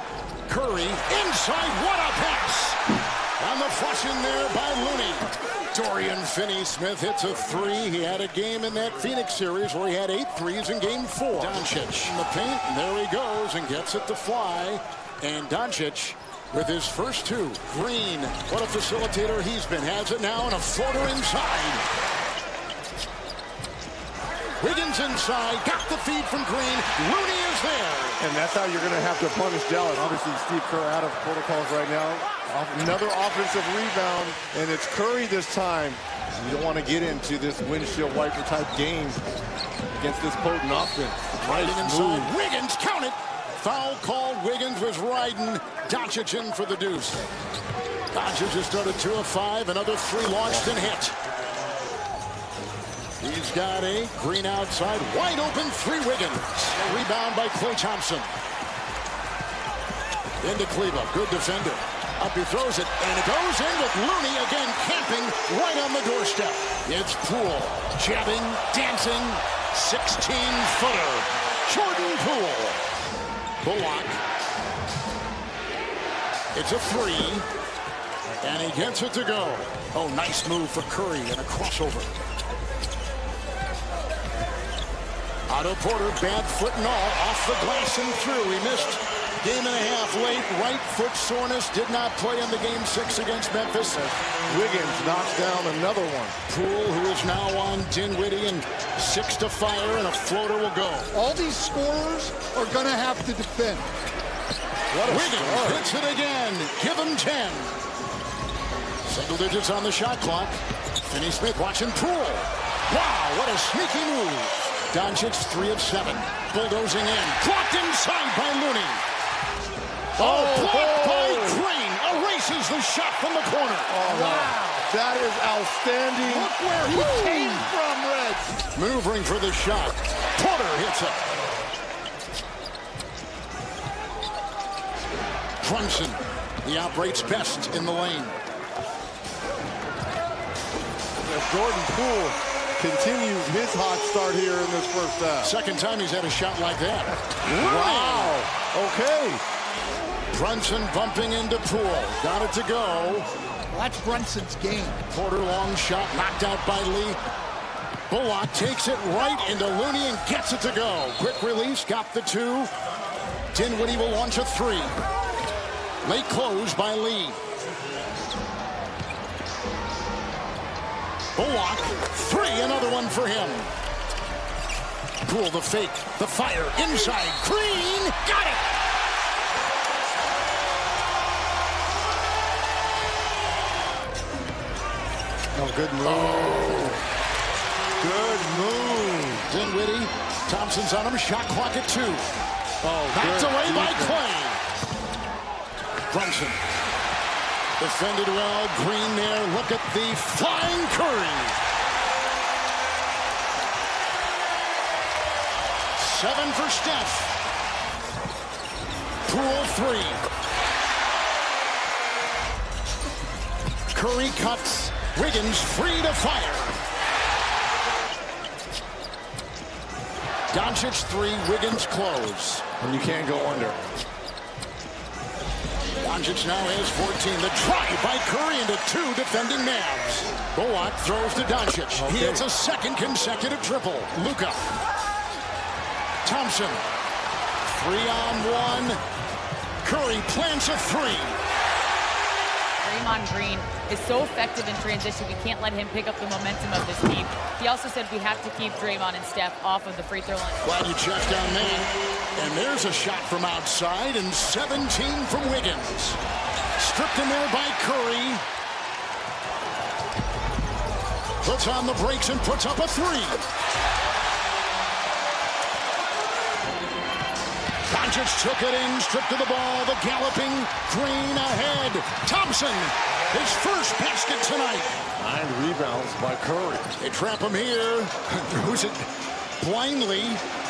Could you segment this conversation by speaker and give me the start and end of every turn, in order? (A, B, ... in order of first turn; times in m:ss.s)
0:00.5-0:02.8 A
0:03.4-0:21.8 A
0:24.6-0:28.2 A
0:28.2-0:39.2 B
0:39.9-0:42.3 B
0:41.4-0:47.2 A
0:48.1-0:51.1 A
0:53.2-0:58.3 A
1:00.4-1:12.8 A
1:13.6-1:14.2 A
1:16.5-1:17.5 A
1:18.4-1:22.1 A
1:25.5-1:34.0 A
1:33.9-1:36.4 B
1:36.5-1:41.1 A
1:41.1-1:43.9 C
1:44.9-1:45.8 B
1:45.0-1:47.7 A
1:49.0-1:59.0 A
2:00.2-2:01.6 B
2:00.2-2:04.0 A
2:03.9-2:08.1 B
2:04.1-2:04.8 C
2:06.2-2:08.4 C
2:08.7-2:11.2 A
2:15.6-2:18.4 A
2:21.2-2:25.5 B
2:25.4-2:28.4 A
2:27.4-2:29.4 B
2:30.3-2:33.3 A
2:33.7-2:35.0 C
2:35.1-2:37.2 A
2:38.1-2:42.7 A
2:43.5-2:45.0 A
2:46.0-2:47.4 A
2:51.3-2:53.7 A
2:55.2-2:58.6 A
3:05.5-3:07.0 B
3:06.0-3:06.9 A
3:08.0-3:09.5 B
3:09.5-3:12.3 A
3:12.8-3:14.2 B
3:13.1-3:14.6 A
3:16.1-3:16.6 A
3:17.8-3:21.6 A
3:26.0-3:27.4 A
3:29.2-3:30.2 A
3:33.9-3:36.8 A
3:40.5-3:42.7 A
3:42.8-3:43.8 B
3:46.0-3:54.6 A
3:52.0-3:52.4 B
3:56.2-3:56.8 A
3:57.7-3:59.0 A
3:59.8-4:01.4 A
4:02.8-4:10.6 D
4:10.6-4:16.2 A
4:16.8-4:18.4 A
4:21.4-4:23.4 A
4:27.9-4:34.9 A
4:35.2-4:36.9 B
4:37.0-4:39.1 A
4:39.6-4:40.4 A